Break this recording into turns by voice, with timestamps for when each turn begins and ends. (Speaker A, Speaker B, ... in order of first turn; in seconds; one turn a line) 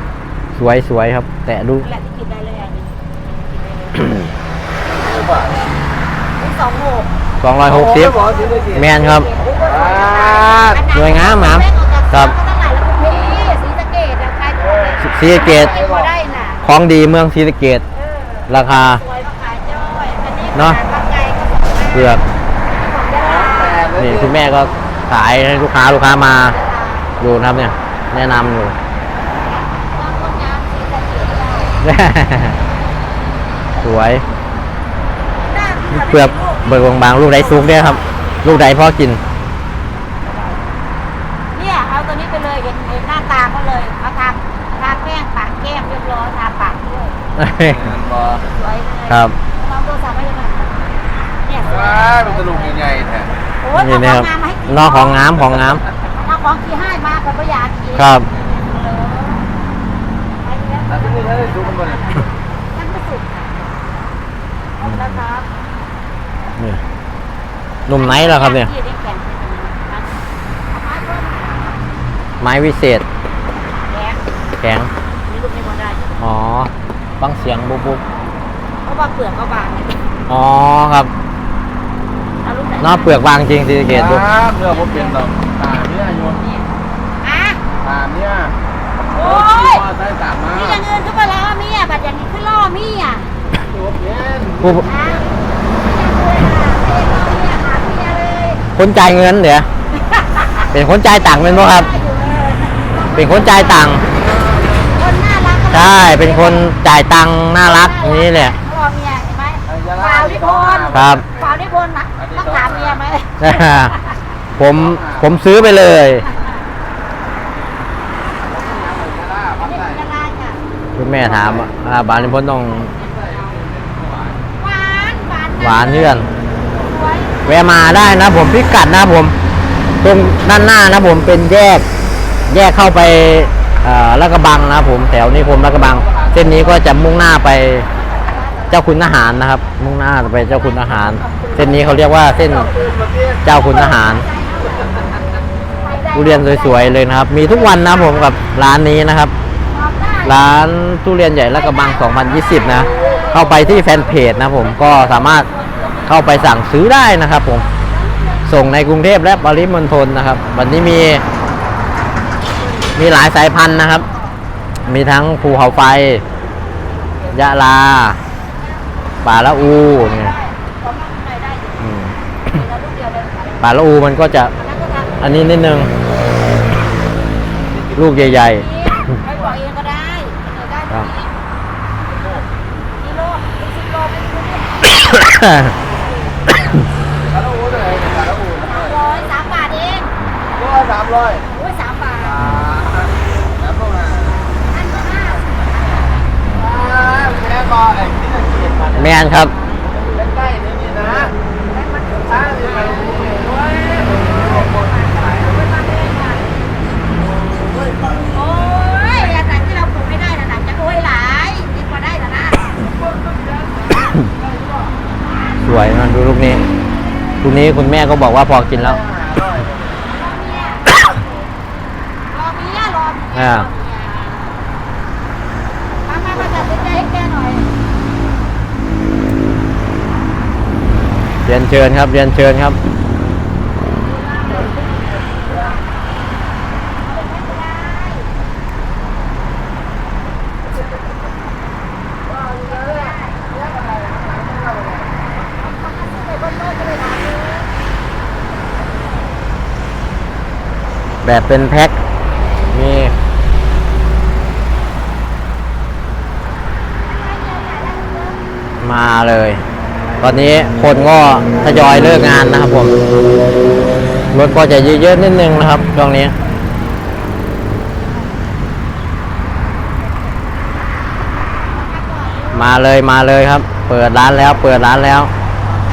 Speaker A: 0.5-1.9
Speaker B: 1.8-4.2
Speaker A: 4.0-4.3
Speaker C: 5.2-5.5
Speaker B: 6.4-7.1
Speaker A: 7.4-8.2
Speaker C: 7.7-8.9
Speaker B: 8.1-16.6
Speaker A: 8.7-9.3
Speaker C: 9.6-10.8
Speaker A: 10.9-12.3
Speaker A: 15.0-15.8
Speaker C: 15.6-16.1
Speaker A: 16.6-17.8
Speaker B: 17.9-22.2
Speaker A: 18.5-19.0
Speaker A: 20.5-20.8
Speaker A: 21.9-22.2
Speaker B: 22.7-24.0
Speaker C: 23.2-24.3
Speaker A: 23.9-26.6
Speaker B: 25.6-28.5
Speaker A: 27.2-28.8
Speaker B: 29.4-31.8
Speaker A: 31.8-32.6
Speaker A: 33.8-34.2
Speaker B: 35.5-38.9
Speaker A: 35.9-39.2
Speaker B: 41.5-47.1
Speaker A: 47.4-48.0
Speaker C: 47.7-48.4
Speaker B: 48.4-52.9
Speaker A: 49.1-49.4
Speaker C: 51.7-53.3
Speaker B: 53.6-55.4
Speaker A: 53.8-55.8
Speaker B: 56.1-59.5
Speaker A: 58.0-58.3
Speaker B: 60.4-64.1
Speaker C: 61.0-62.0
Speaker B: 64.8-65.5
Speaker A: 64.8-65.2
Speaker A: 67.9-68.7
Speaker B: 67.9-71.8
Speaker A: 72.4-73.0
Speaker B: 73.9-74.2
Speaker A: 74.6-74.9
Speaker B: 75.3-76.2
Speaker A: 76.2-78.0
Speaker B: 78.8-80.1
Speaker A: 80.3-81.1
Speaker B: 82.4-83.2
Speaker A: 82.8-84.3
Speaker C: 83.9-86.4
Speaker B: 84.5-85.2
Speaker B: 86.4-86.7
Speaker B: 87.2-87.6
Speaker C: 87.8-88.5
Speaker B: 89.1-89.9
Speaker C: 89.1-90.7
Speaker B: 90.5-93.3
Speaker C: 93.8-94.8
Speaker A: 94.6-94.9
Speaker B: 94.8-98.6
Speaker A: 98.8-99.7
Speaker B: 100.0-100.7
Speaker A: 100.7-101.9
Speaker B: 101.2-106.7
Speaker A: 103.2-104.0
Speaker A: 105.7-108.6
Speaker B: 107.6-114.2
Speaker C: 109.7-111.4
Speaker A: 110.9-111.2
Speaker C: 112.2-113.0
Speaker A: 113.4-114.0
Speaker A: 114.6-116.3
Speaker C: 114.7-115.3
Speaker C: 118.5-120.0
Speaker B: 119.6-120.6
Speaker A: 121.0-122.9
Speaker C: 121.4-121.6
Speaker B: 121.6-123.8
Speaker C: 123.1-124.4
Speaker B: 124.6-128.6
Speaker A: 125.6-126.3
Speaker A: 127.5-129.3
Speaker A: 130.0-131.8
Speaker A: 132.5-137.9
Speaker C: 136.1-136.4
Speaker B: 137.9-141.4
Speaker A: 138.7-142.7
Speaker C: 142.5-143.4
Speaker A: 143.4-144.2
Speaker B: 143.5-145.0
Speaker B: 145.8-148.3
Speaker A: 146.1-149.3
Speaker B: 149.7-150.5
Speaker A: 150.2-155.5
Speaker B: 151.5-153.9
Speaker C: 153.0-154.3
Speaker B: 154.5-156.7
Speaker A: 156.1-157.6
Speaker B: 157.3-158.5
Speaker A: 158.5-161.2
Speaker B: 162.7-163.0
Speaker A: 163.0-164.1
Speaker B: 163.9-164.3
Speaker B: 164.8-165.9
Speaker A: 164.9-166.2
Speaker B: 166.7-167.6
Speaker A: 167.3-168.2
Speaker B: 168.5-173.8
Speaker A: 169.2-170.3
Speaker A: 171.8-172.2
Speaker A: 173.6-174.5
Speaker B: 174.5-175.5
Speaker A: 175.2-175.9
Speaker C: 177.7-178.1
Speaker A: 177.9-178.7
Speaker B: 178.4-181.3
Speaker B: 183.0-184.9
Speaker A: 184.9-185.7
Speaker C: 187.3-189.1
Speaker B: 188.6-190.1
Speaker C: 190.6-191.4
Speaker B: 191.4-192.5
Speaker A: 192.4-192.7
Speaker C: 192.4-194.3
Speaker B: 194.6-196.3
Speaker C: 196.6-199.1
Speaker A: 198.9-199.5
Speaker C: 200.1-201.3
Speaker B: 201.7-206.5
Speaker C: 202.4-205.2
Speaker B: 208.3-212.9
Speaker A: 215.6-216.6
Speaker A: 217.4-219.0
Speaker C: 219.2-219.8
Speaker B: 220.1-221.0
Speaker B: 222.3-224.6
Speaker A: 223.3-223.7
Speaker B: 226.1-227.7
Speaker A: 231.4-232.8
Speaker B: 234.0-235.8
Speaker B: 237.0-238.3
Speaker B: 242.4-243.6
Speaker B: 245.4-247.7
Speaker A: 251.2-252.0
Speaker A: 252.7-253.1
Speaker B: 257.0-258.4
Speaker A: 258.8-259.6
Speaker A: 260.2-263.0
Speaker A: 264.3-266.4
Speaker B: 271.6-272.7
Speaker A: 272.5-275.3